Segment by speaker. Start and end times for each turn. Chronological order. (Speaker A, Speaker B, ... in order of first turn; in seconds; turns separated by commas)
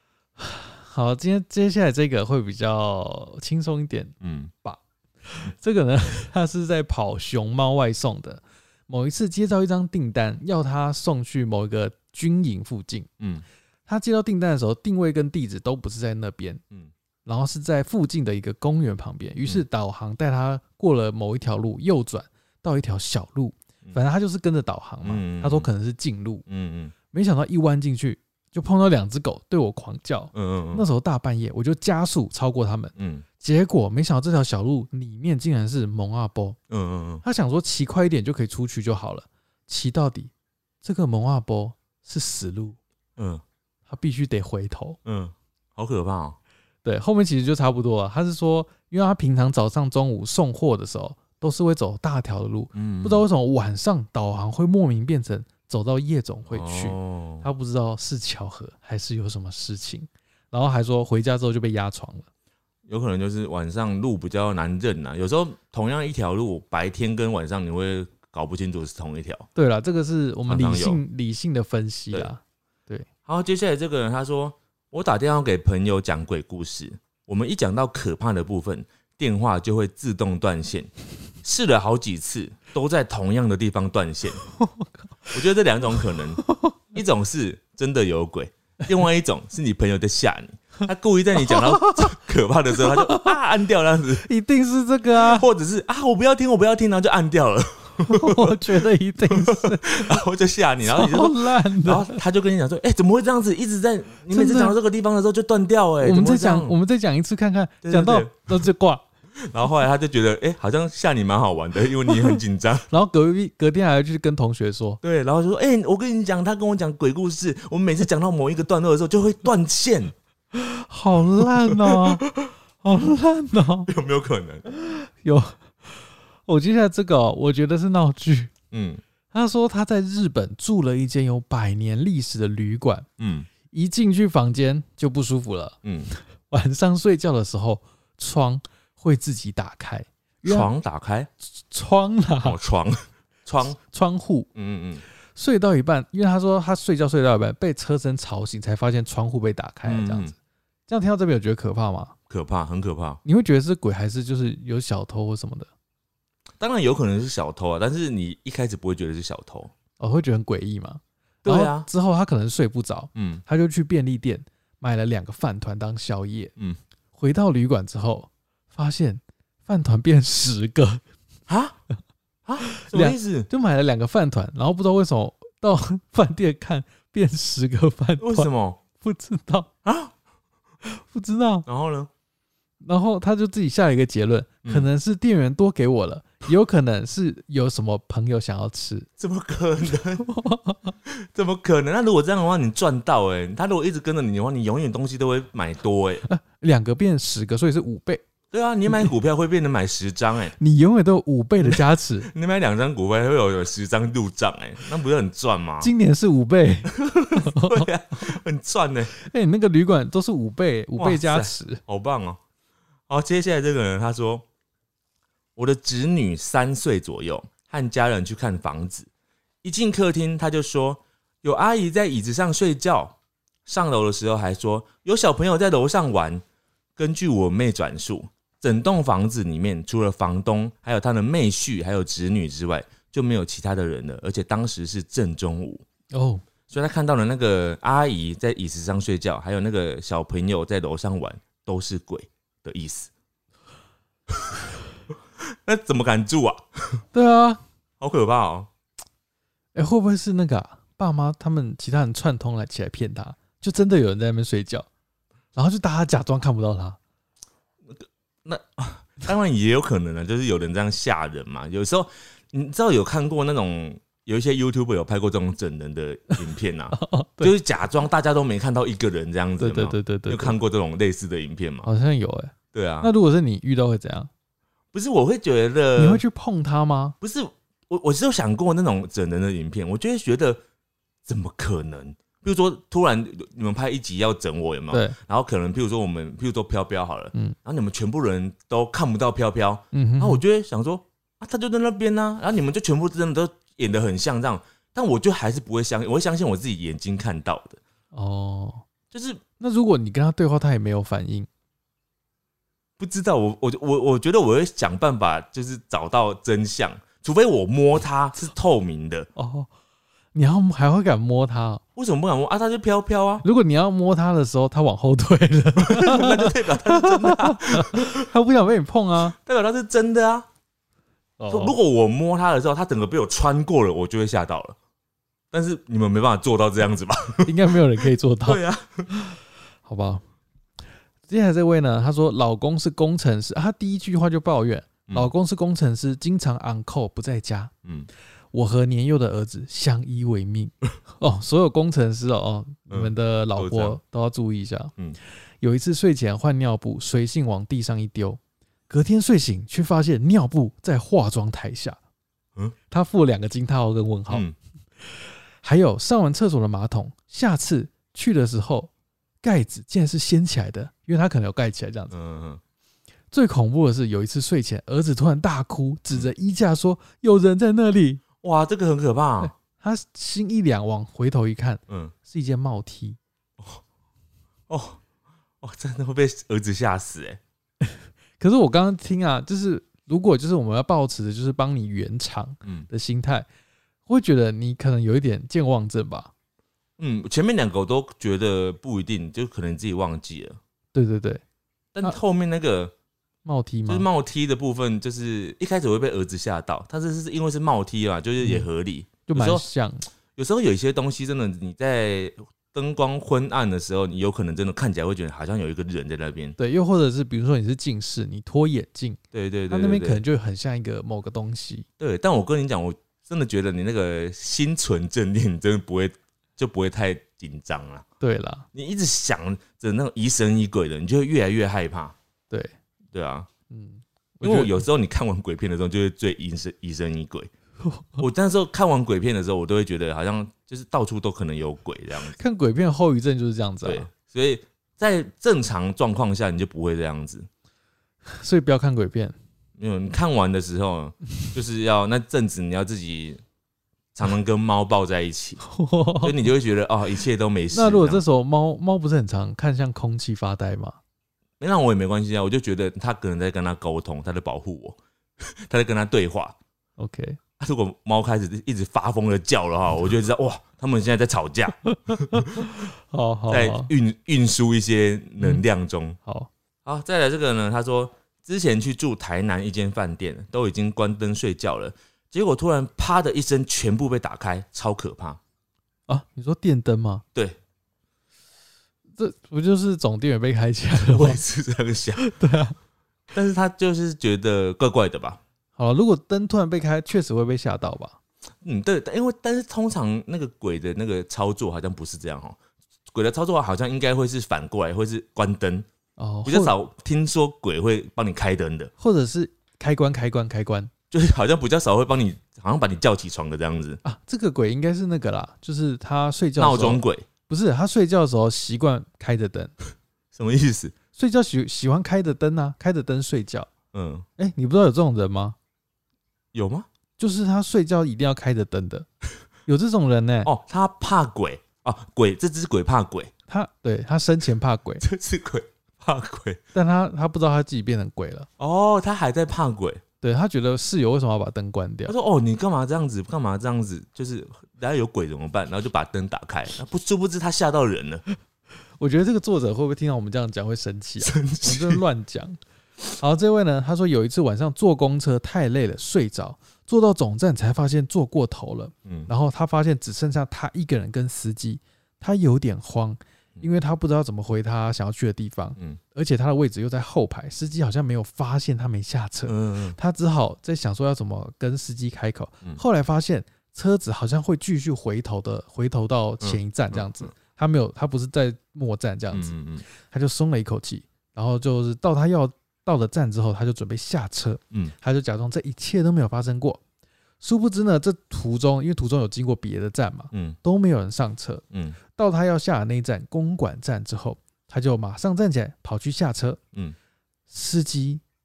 Speaker A: 0.4-13.1, Speaker B: 4.2-4.5, Speaker B: 13.2-13.4, Speaker A: 13.9-16.6, Speaker A: 17.2-26.4, Speaker B: 25.0-25.7, Speaker B: 26.5-26.9, Speaker A: 27.1-36.6, Speaker B: 30.3-30.8, Speaker B: 33.0-33.2, Speaker B: 36.7-37.2, Speaker A: 37.2-40.3, Speaker A: 40.8-42.8, Speaker B: 43.2-43.4, Speaker A: 43.9-45.0, Speaker B: 45.0-46.4, Speaker A: 46.8-62.3, Speaker B: 52.7-53.2, Speaker B: 56.5-57.5, Speaker B: 62.9-69.5, Speaker A: 69.5-73.1, Speaker B: 70.5-71.0, Speaker B: 73.2-80.9, Speaker B: 81.4-84.4, Speaker A: 84.6-84.9, Speaker B: 85.3-94.3, Speaker A: 86.5-86.7, Speaker A: 91.5-92.1, Speaker A: 93.0-93.3, Speaker A: 94.2-95.5, Speaker B: 95.1-106.8, Speaker A: 98.1-100.2, Speaker A: 100.8-102.2, Speaker A: 104.3-104.8, Speaker A: 106.0-109.0, Speaker B: 107.8-108.7, Speaker B: 109.4-112.9, Speaker A: 112.9-115.0, Speaker B: 115.0-120.1, Speaker A: 120.5-122.2, Speaker B: 121.4-122.4, Speaker A: 122.8-123.9, Speaker B: 123.9-124.7, Speaker A: 124.7-128.5, Speaker B: 128.7-129.0, Speaker A: 129.3-133.1, Speaker B: 133.2-133.5, Speaker A: 133.7-140.7, Speaker B: 135.8-136.1, Speaker B: 140.4-141.3, Speaker A: 141.5-142.6, Speaker B: 142.4-143.8, Speaker A: 143.8-144.5, Speaker B: 144.5-145.0, Speaker A: 145.3-150.3, Speaker B: 149.8-150.3, Speaker A: 150.9-152.1, Speaker B: 152.3-153.2, Speaker A: 153.2-155.7, Speaker B: 156.6-159.7, Speaker A: 160.0-166.5, Speaker B: 161.4-161.9, Speaker B: 163.1-163.4, Speaker A: 167.1-171.0, Speaker B: 171.5-171.8, Speaker B: 172.4-173.5, Speaker A: 172.6-179.7, Speaker B: 178.2-178.8, Speaker B: 179.8-180.1, Speaker A: 180.8-181.7, Speaker B: 181.7-182.1, Speaker A: 182.8-189.1, Speaker B: 189.2-190.2, Speaker A: 190.2-190.9, Speaker B: 191.1-196.2, Speaker A: 196.2-198.2, Speaker B: 198.5-200.5, Speaker A: 200.6-202.3, Speaker B: 201.6-205.9, Speaker A: 205.8-207.9, Speaker B: 206.9-209.1, Speaker A: 209.1-211.8, Speaker B: 211.0-212.4, Speaker B: 213.1-214.4, Speaker B: 215.6-219.1, Speaker B: 219.6-226.4, Speaker B: 226.9-235.8, Speaker A: 236.1-236.4, Speaker B: 236.7-243.1, Speaker B: 244.3-244.6, Speaker B: 245.4-247.0, Speaker A: 247.1-247.6, Speaker B: 248.0-248.7, Speaker A: 249.7-254.9, Speaker A: 255.5-257.0, Speaker B: 257.9-271.9, Speaker A: 266.9-267.5, Speaker A: 269.6-270.6, Speaker A: 271.8-274.3, Speaker B: 272.7-273.1, Speaker B: 274.9-276.2, Speaker A: 275.9-277.1, Speaker B: 277.2-280.6, Speaker B: 281.2-297.8, Speaker A: 284.9-285.2, Speaker A: 289.9-290.4, Speaker A: 298.1-298.8, Speaker B: 299.1-299.4, Speaker A: 299.6-301.5, Speaker B: 303.0-309.3, Speaker A: 309.4-309.7, Speaker A: 310.3-311.8, Speaker B: 311.9-313.4, Speaker A: 313.4-319.4, Speaker B: 315.8-318.3, Speaker B: 319.3-320.5, Speaker A: 321.4-321.8, Speaker B: 321.5-324.8, Speaker B: 325.5-329.1, Speaker A: 327.4-330.2, Speaker A: 331.3-337.7, Speaker A: 338.5-344.9, Speaker B: 342.9-344.0, Speaker A: 345.6-352.0, Speaker A: 352.9-354.4, Speaker B: 354.3-354.5, Speaker A: 355.0-358.9, Speaker A: 359.4-362.1, Speaker B: 362.1-362.6, Speaker A: 363.3-368.2, Speaker B: 368.4-369.5, Speaker A: 369.4-373.2, Speaker B: 374.7-375.0, Speaker B: 375.6-377.4, Speaker A: 378.4-383.4, Speaker A: 384.1-386.3, Speaker B: 387.0-390.6, Speaker A: 390.9-391.4, Speaker B: 391.9-392.9, Speaker A: 393.4-394.1, Speaker B: 393.9-399.6, Speaker A: 398.4-398.7, Speaker A: 399.2-400.1, Speaker B: 400.4-406.6, Speaker A: 406.6-409.2, Speaker B: 409.3-410.2, Speaker A: 409.7-411.9, Speaker B: 412.0-418.0, Speaker A: 418.2-418.6, Speaker B: 418.7-422.1, Speaker A: 422.5-422.7, Speaker B: 423.1-423.5, Speaker A: 423.7-424.8, Speaker B: 424.4-427.5, Speaker A: 427.9-428.2, Speaker B: 428.2-432.4, Speaker A: 432.3-434.1, Speaker B: 433.8-437.5, Speaker A: 438.3-439.4, Speaker B: 439.8-443.4, Speaker B: 444.1-445.6, Speaker A: 445.6-446.4, Speaker B: 446.2-448.2, Speaker A: 447.7-451.0, Speaker B: 451.6-456.5, Speaker A: 457.0-457.4, Speaker B: 457.6-462.7, Speaker A: 461.9-463.9, Speaker B: 463.5-466.2, Speaker A: 466.2-466.5, Speaker B: 466.9-475.4, Speaker A: 476.1-477.2, Speaker A: 479.2-481.4, Speaker B: 481.0-482.2, Speaker A: 482.2-482.8, Speaker B: 483.3-485.4, Speaker A: 485.8-488.2, Speaker B: 488.6-492.6, Speaker B: 493.1-495.9, Speaker A: 496.2-496.8, Speaker B: 496.4-498.9, Speaker A: 499.0-500.9, Speaker B: 501.1-504.0, Speaker A: 504.0-509.7, Speaker B: 506.6-507.2, Speaker B: 510.3-510.9, Speaker A: 511.1-513.7, Speaker B: 513.9-514.2, Speaker A: 514.4-515.5, Speaker B: 516.5-516.9, Speaker A: 517.2-519.1, Speaker A: 519.6-520.5, Speaker B: 520.4-523.3, Speaker A: 523.5-525.0, Speaker B: 525.0-526.6, Speaker A: 526.7-528.5, Speaker B: 528.6-530.0, Speaker A: 530.2-532.1, Speaker B: 532.1-538.2, Speaker A: 539.0-542.6, Speaker B: 541.2-542.0, Speaker A: 543.2-576.8, Speaker B: 559.5-560.0, Speaker B: 566.4-567.3, Speaker B: 569.3-569.8, Speaker A: 577.4-581.6, Speaker B: 580.3-580.6, Speaker B: 581.7-582.0, Speaker A: 582.1-586.6, Speaker A: 587.5-588.2